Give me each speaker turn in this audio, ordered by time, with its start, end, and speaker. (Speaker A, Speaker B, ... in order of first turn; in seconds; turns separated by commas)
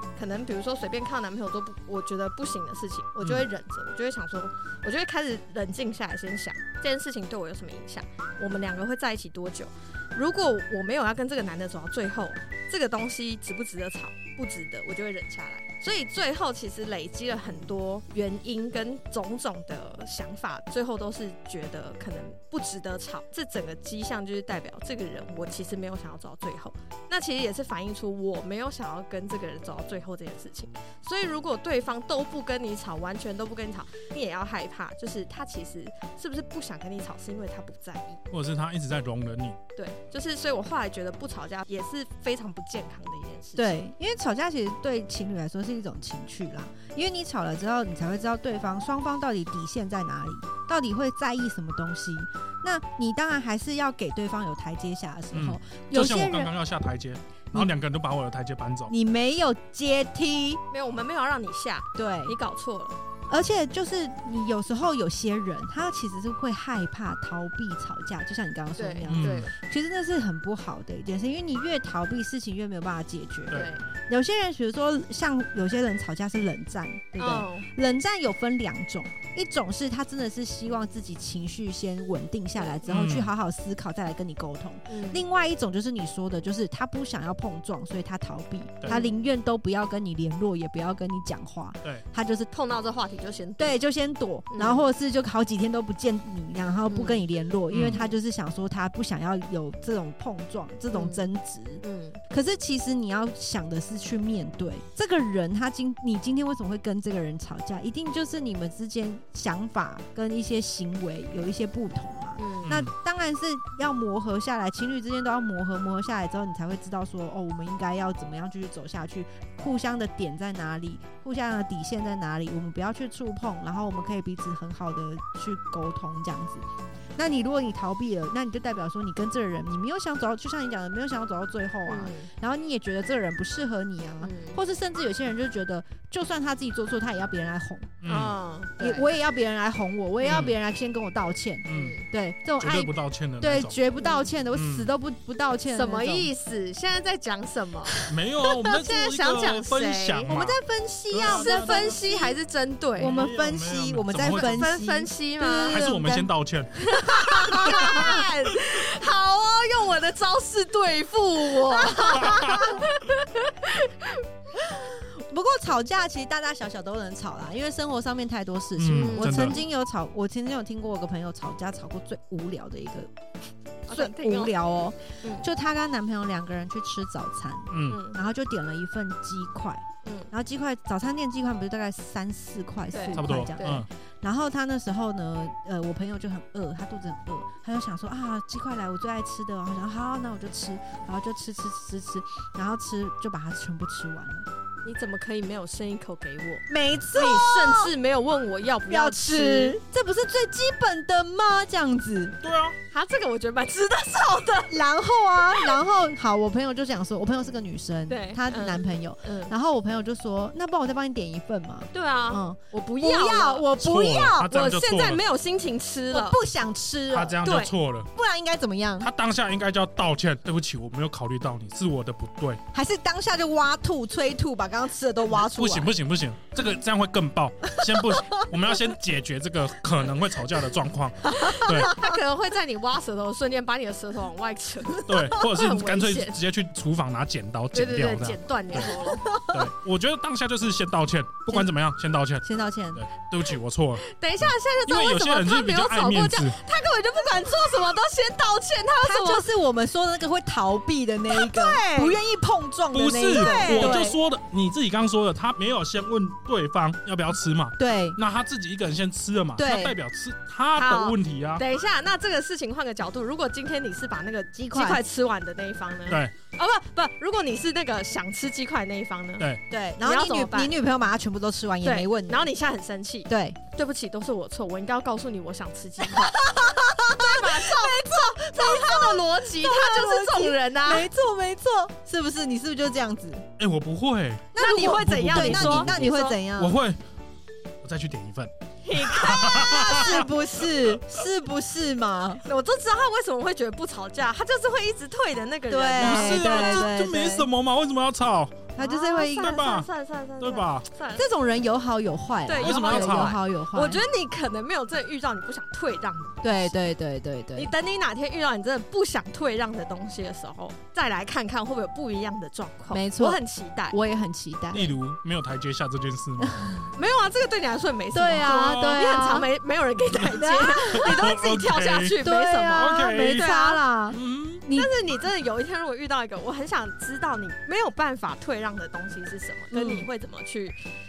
Speaker A: 0.2-38.2, Speaker B: 38.3-39.6, Speaker A: 39.8-43.8, Speaker C: 43.6-56.5, Speaker B: 55.3-58.9, Speaker C: 58.9-60.6, Speaker A: 60.7-63.0, Speaker C: 62.0-62.4, Speaker C: 63.3-92.5, Speaker A: 68.8-69.5, Speaker B: 69.1-69.5, Speaker A: 73.5-73.8, Speaker A: 77.2-77.7, Speaker B: 82.9-83.3, Speaker A: 84.9-85.2, Speaker A: 88.9-89.1, Speaker A: 92.5-93.8, Speaker C: 93.6-138.0, Speaker A: 94.5-94.9, Speaker A: 96.9-97.2, Speaker B: 97.7-98.0, Speaker A: 97.8-98.1, Speaker A: 100.9-101.2, Speaker A: 101.8-102.2, Speaker A: 112.4-112.8, Speaker B: 112.7-112.9, Speaker A: 131.9-132.3, Speaker A: 134.2-134.6, Speaker B: 138.0-138.4, Speaker A: 138.1-139.1, Speaker C: 138.8-146.3, Speaker B: 140.2-140.6, Speaker B: 141.7-142.0, Speaker A: 141.7-142.1, Speaker B: 142.6-143.8, Speaker A: 144.0-144.3, Speaker B: 144.5-144.9, Speaker A: 145.7-150.3, Speaker B: 148.1-150.6, Speaker C: 150.3-152.4, Speaker B: 151.1-152.0, Speaker A: 151.2-153.2, Speaker C: 153.0-156.3, Speaker B: 153.0-154.7, Speaker A: 154.3-155.8, Speaker B: 155.7-156.8, Speaker A: 156.8-164.2, Speaker C: 156.9-158.2, Speaker C: 161.9-162.8, Speaker B: 162.2-162.7, Speaker C: 164.6-173.1, Speaker B: 168.8-169.6, Speaker A: 169.0-169.6, Speaker A: 173.9-174.5, Speaker C: 173.9-194.5, Speaker A: 175.2-175.5, Speaker B: 177.7-178.0, Speaker A: 177.9-178.2, Speaker A: 180.0-180.3, Speaker A: 182.9-183.9, Speaker B: 183.2-183.9, Speaker A: 194.8-199.8, Speaker C: 196.7-197.9, Speaker C: 198.9-202.4, Speaker B: 202.4-202.8, Speaker A: 202.9-204.8, Speaker C: 204.7-214.5, Speaker A: 205.5-205.8, Speaker A: 208.1-209.5, Speaker A: 211.9-213.7, Speaker B: 213.8-215.2, Speaker A: 214.4-216.4, Speaker C: 216.1-217.4, Speaker B: 217.1-218.1, Speaker A: 217.4-217.7, Speaker C: 218.2-219.1, Speaker B: 219.0-222.6, Speaker C: 222.7-225.9, Speaker B: 225.3-231.9, Speaker C: 227.8-228.5, Speaker C: 231.3-232.2, Speaker A: 231.4-236.4, Speaker B: 235.1-238.9, Speaker A: 237.7-239.4, Speaker C: 239.1-239.7, Speaker B: 239.5-246.6, Speaker C: 242.4-243.0, Speaker A: 244.0-249.4, Speaker C: 249.0-254.2, Speaker A: 251.3-252.2, Speaker B: 252.9-261.6, Speaker A: 253.3-254.2, Speaker C: 257.8-258.2, Speaker C: 259.6-260.0, Speaker A: 260.8-269.5, Speaker C: 264.5-265.0, Speaker B: 266.1-266.3, Speaker C: 269.7-272.5, Speaker A: 270.0-270.8, Speaker A: 271.8-276.5, Speaker C: 273.3-273.6, Speaker C: 276.1-283.5, Speaker A: 277.1-281.1, Speaker B: 283.6-287.0, Speaker C: 284.5-286.8, Speaker A: 284.6-286.4, Speaker B: 287.8-290.3, Speaker A: 288.8-290.3, Speaker C: 289.4-292.4, Speaker A: 292.4-296.9, Speaker C: 295.7-297.5, Speaker B: 296.0-298.7, Speaker C: 298.8-299.6, Speaker A: 298.8-301.3, Speaker B: 299.4-299.9, Speaker B: 300.4-300.9, Speaker C: 301.2-304.0, Speaker A: 302.5-306.7, Speaker B: 302.6-303.4, Speaker C: 306.4-307.7, Speaker A: 307.6-314.0, Speaker C: 312.9-313.4, Speaker C: 313.9-314.9, Speaker B: 314.7-316.7, Speaker C: 316.4-316.9, Speaker A: 316.9-323.8, Speaker C: 318.1-319.5, Speaker C: 320.3-321.2, Speaker B: 320.9-322.2, Speaker C: 322.2-324.9, Speaker B: 322.8-323.4, Speaker B: 324.1-324.6, Speaker A: 324.7-330.8, Speaker C: 329.7-330.1